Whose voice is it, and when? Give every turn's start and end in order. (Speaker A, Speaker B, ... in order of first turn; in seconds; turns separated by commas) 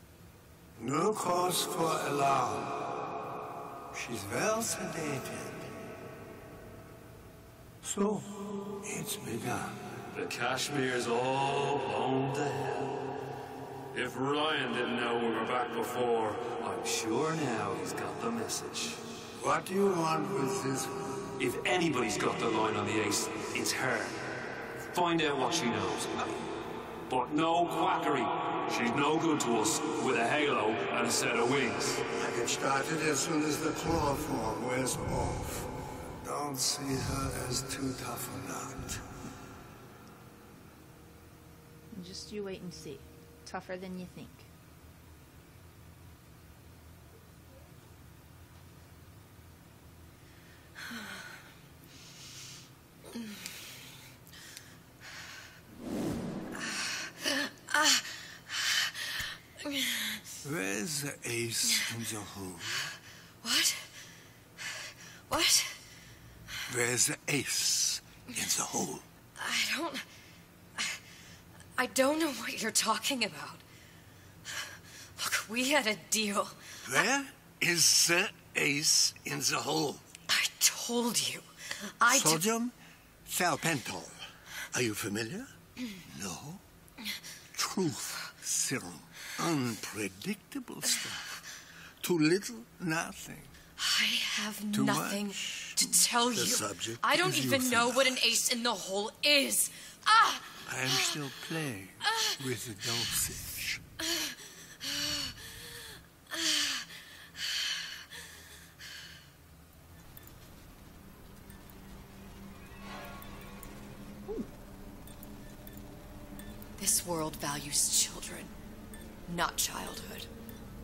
Speaker A: 0.8-2.9, Speaker A: 3.9-5.7, Speaker A: 7.8-10.0, Speaker B: 10.1-13.1, Speaker B: 13.9-19.0, Speaker A: 19.4-21.2, Speaker B: 21.4-24.1, Speaker B: 24.9-26.1, Speaker B: 27.1-32.0, Speaker A: 32.1-35.7, Speaker A: 36.2-39.0, Speaker C: 41.9-44.5, Speaker D: 56.5-58.9, Speaker D: 59.6-60.2, Speaker A: 60.4-62.9, Speaker D: 63.4-63.9, Speaker D: 65.3-65.7, Speaker A: 66.7-69.0, Speaker D: 69.4-70.0, Speaker D: 71.8-73.6, Speaker D: 75.2-76.6, Speaker A: 76.8-80.0, Speaker D: 80.3-81.5, Speaker D: 82.0-82.4, Speaker A: 82.1-82.7, Speaker A: 83.2-84.2, Speaker A: 84.7-85.5, Speaker A: 86.1-86.6, Speaker A: 87.5-91.4, Speaker A: 92.0-93.5, Speaker D: 93.8-101.2, Speaker A: 94.7-98.4, Speaker A: 100.6-103.8, Speaker D: 102.0-102.3, Speaker D: 116.8-118.5, Speaker D: 119.3-120.3